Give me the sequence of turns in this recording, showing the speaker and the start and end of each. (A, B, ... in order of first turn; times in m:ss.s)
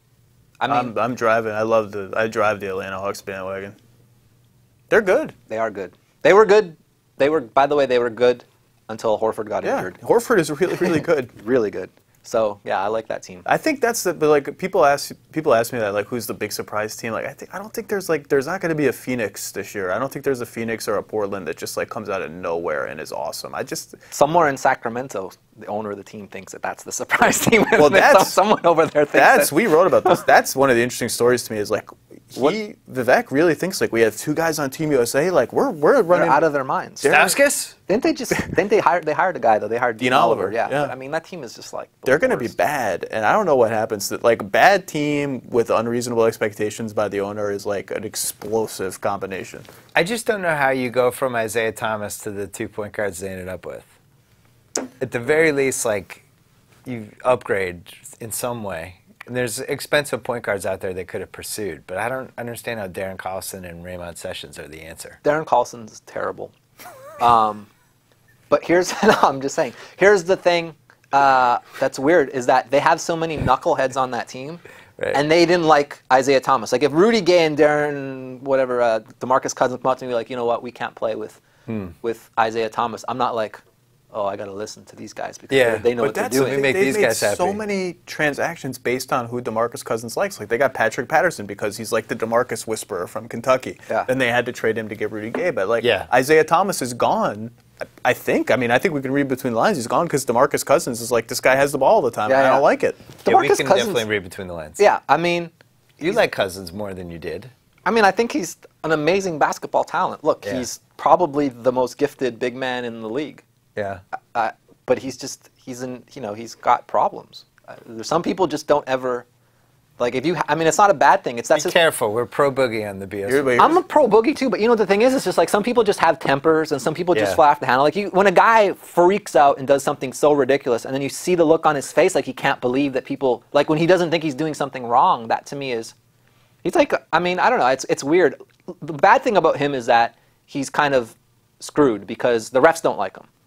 0:00.6-0:00.9 A
0:00.7-0:03.8 B
0:04.9-0:05.3 B
0:05.5-0:10.0 A
0:09.6-0:11.4 B
0:10.8-0:13.4 A
0:13.4-0:24.0 B
0:24.1-0:29.5 A
0:27.8-0:28.4 B
0:29.1-0:36.4 B
0:36.1-0:37.1 A
0:37.0-0:37.4 B
0:37.1-0:37.7 C
0:37.9-0:42.5 A
0:40.0-0:40.9 B
0:42.0-0:49.6 B
0:49.9-0:53.9 C
0:55.0-0:56.2 C
0:56.8-1:05.2 C
1:05.2-1:06.5 A
1:07.2-1:07.7 A
1:08.5-1:21.4 A
1:21.7-1:21.9 C
1:22.0-1:26.7 A
1:25.5-1:27.6 C
1:26.0-1:43.0 B
1:35.8-1:36.1 C
1:42.3-1:42.6 A
1:43.2-1:44.0 A
1:43.2-1:44.8 C
1:44.8-1:45.5 A
1:46.0-1:47.5 C
1:47.8-1:53.4 A
1:53.8-1:54.0 C
1:54.3-1:59.2 A
2:00.0-2:01.8 A
2:01.5-2:03.7 C
2:03.2-2:03.8 B
2:03.6-2:15.9 A
2:07.1-2:07.4 C
2:16.6-2:23.3 A